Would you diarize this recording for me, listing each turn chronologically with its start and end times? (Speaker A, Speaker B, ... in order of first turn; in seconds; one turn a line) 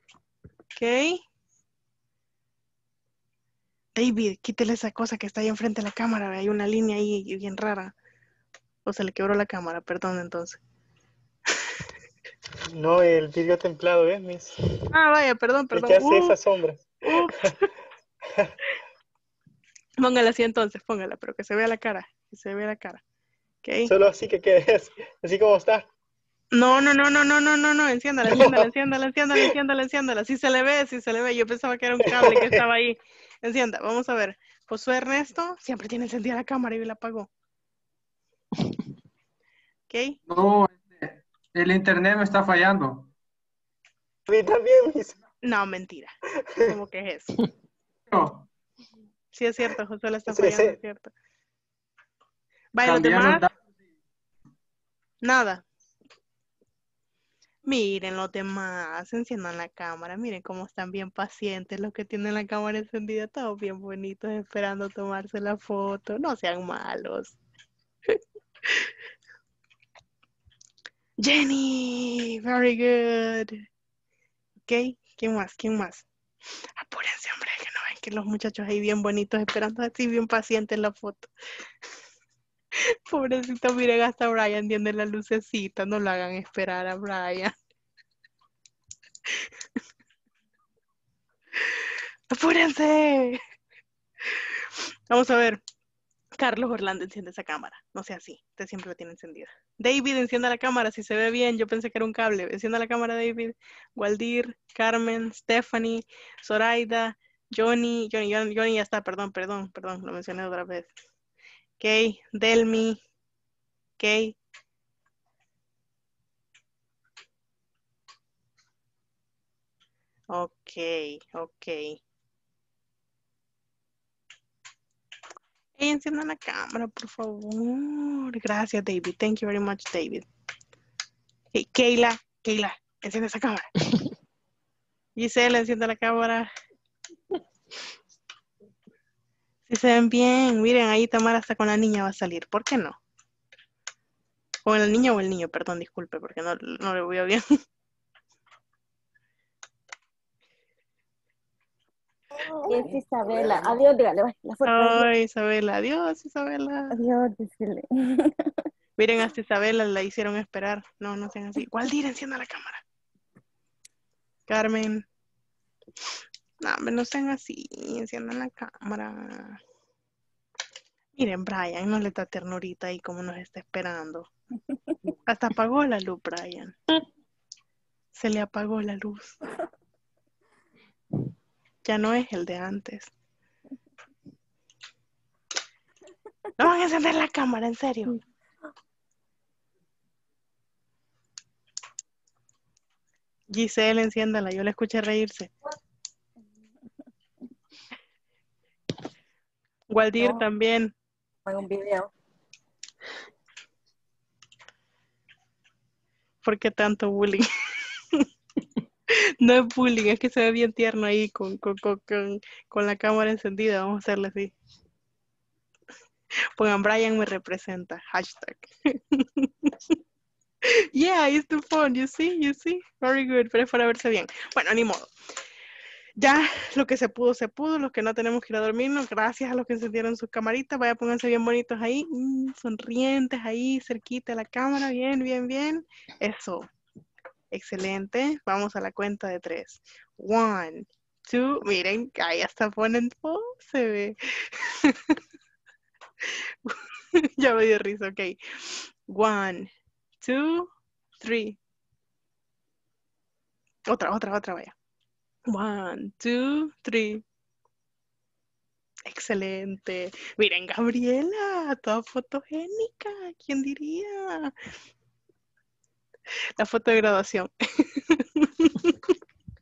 Speaker A: 0.8-1.2
Speaker A: 4.0-7.9
Speaker A: 8.8-10.6
Speaker B: 12.7-14.5
Speaker A: 14.9-16.4
Speaker B: 15.7-17.5
Speaker A: 17.1-17.4
Speaker A: 20.0-23.0
Speaker A: 23.6-23.9
Speaker B: 23.9-25.9
Speaker A: 26.5-37.3
Speaker B: 28.3-28.7
Speaker B: 32.0-32.6
Speaker A: 39.9-40.2
Speaker C: 40.3-43.1
Speaker B: 44.3-45.1
Speaker A: 45.4-46.1
Speaker A: 46.6-47.3
Speaker C: 48.1-48.5
Speaker A: 49.3-51.1
Speaker B: 50.3-50.8
Speaker A: 52.7-53.5
Speaker C: 52.8-53.5
Speaker A: 55.2-55.6
Speaker A: 57.6-67.4
Speaker A: 71.2-73.6
Speaker A: 74.7-76.0
Speaker A: 76.8-81.3
Speaker A: 83.1-87.5
Speaker A: 92.3-93.4
Speaker A: 95.1-95.6
Speaker A: 96.4-110.9
Speaker A: 111.8-113.0
Speaker A: 114.0-114.4
Speaker A: 120.3-122.0
Speaker A: 125.8-130.2
Speaker A: 131.5-133.7
Speaker A: 135.2-136.5
Speaker A: 139.7-143.0
Speaker A: 144.7-147.4
Speaker D: 152.7-155.1
Speaker A: 154.6-156.9
Speaker D: 156.9-158.3
Speaker A: 159.0-162.8
Speaker A: 164.5-165.1
Speaker A: 166.6-169.6
Speaker A: 171.2-174.3
Speaker A: 175.3-176.8
Speaker A: 178.1-179.4
Speaker A: 181.8-183.1
Speaker A: 186.6-188.1
Speaker A: 193.5-195.5
Speaker A: 199.9-200.9
Speaker D: 200.2-200.4
Speaker D: 201.4-202.1
Speaker A: 206.4-207.4
Speaker A: 209.4-214.5
Speaker A: 216.6-219.7
Speaker A: 220.9-225.1
Speaker A: 226.2-236.7
Speaker A: 237.5-245.0
Speaker A: 247.4-249.7
Speaker A: 250.2-251.6
Speaker A: 253.9-254.7
Speaker A: 255.5-257.2
Speaker A: 259.1-264.5
Speaker A: 266.6-267.5
Speaker A: 268.1-269.1